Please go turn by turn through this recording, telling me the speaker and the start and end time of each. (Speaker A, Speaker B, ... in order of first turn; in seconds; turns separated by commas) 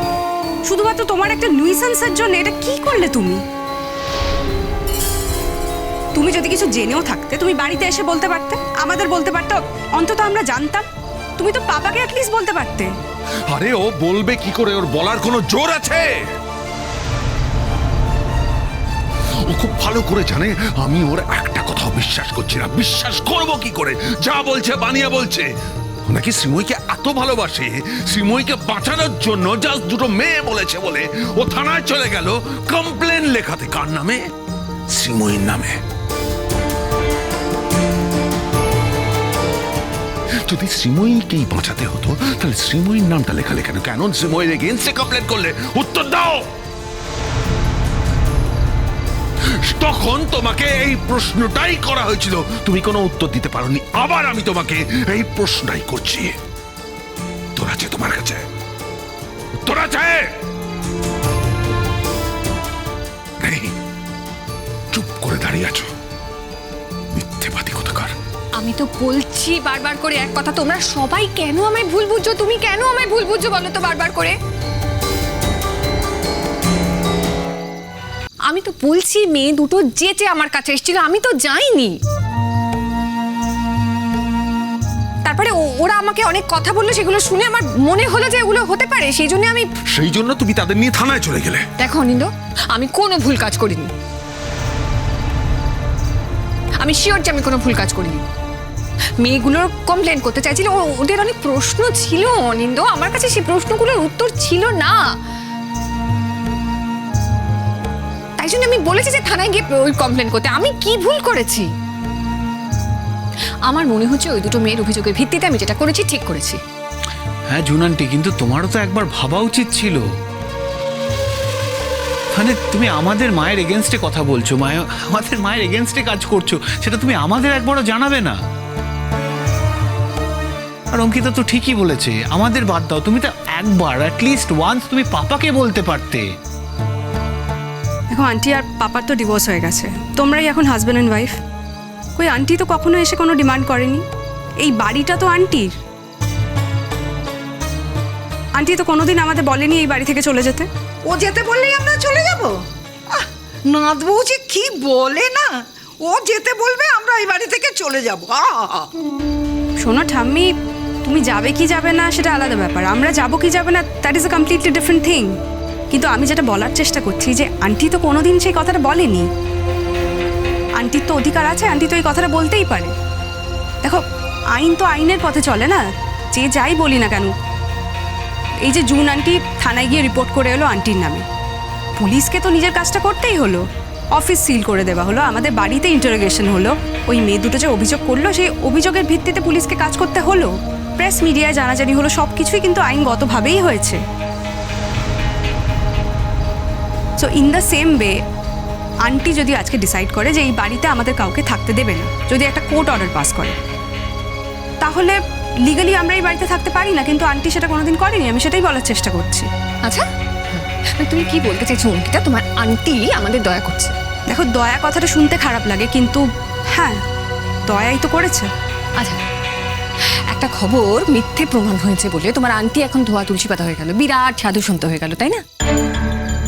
Speaker A: 0.7-3.4, Speaker A: 6.2-10.8, Speaker A: 11.4-12.9, Speaker B: 13.5-16.1, Speaker B: 19.5-25.5, Speaker B: 26.1-34.2, Speaker B: 34.9-35.8, Speaker B: 40.4-46.5, Speaker B: 49.7-56.4, Speaker B: 57.5-58.4, Speaker B: 59.6-60.2, Speaker B: 63.4-63.7, Speaker B: 64.9-65.9, Speaker B: 67.1-68.1, Speaker C: 68.5-74.3, Speaker C: 78.5-81.9, Speaker C: 85.2-89.7, Speaker B: 89.9-91.7, Speaker C: 91.8-93.9, Speaker C: 96.8-98.2, Speaker C: 99.2-105.0, Speaker C: 108.4-111.7, Speaker C: 113.7-116.6, Speaker D: 117.5-120.0, Speaker D: 122.3-128.4, Speaker D: 130.9-136.3, Speaker A: 138.1-141.3, Speaker A: 142.2-144.0, Speaker A: 144.6-145.7, Speaker A: 148.6-150.7, Speaker E: 151.1-152.6, Speaker E: 153.1-155.5, Speaker E: 156.0-158.9, Speaker A: 159.8-160.5, Speaker A: 161.1-165.3, Speaker A: 165.9-169.3, Speaker A: 170.8-172.9, Speaker A: 174.5-177.3, Speaker A: 178.7-181.2, Speaker A: 182.0-183.6, Speaker A: 184.2-194.0, Speaker A: 197.2-198.1, Speaker A: 199.1-203.6, Speaker A: 204.8-205.2, Speaker A: 205.7-209.5, Speaker C: 209.8-213.9, Speaker A: 214.3-217.0, Speaker A: 217.7-218.5, Speaker C: 220.3-225.4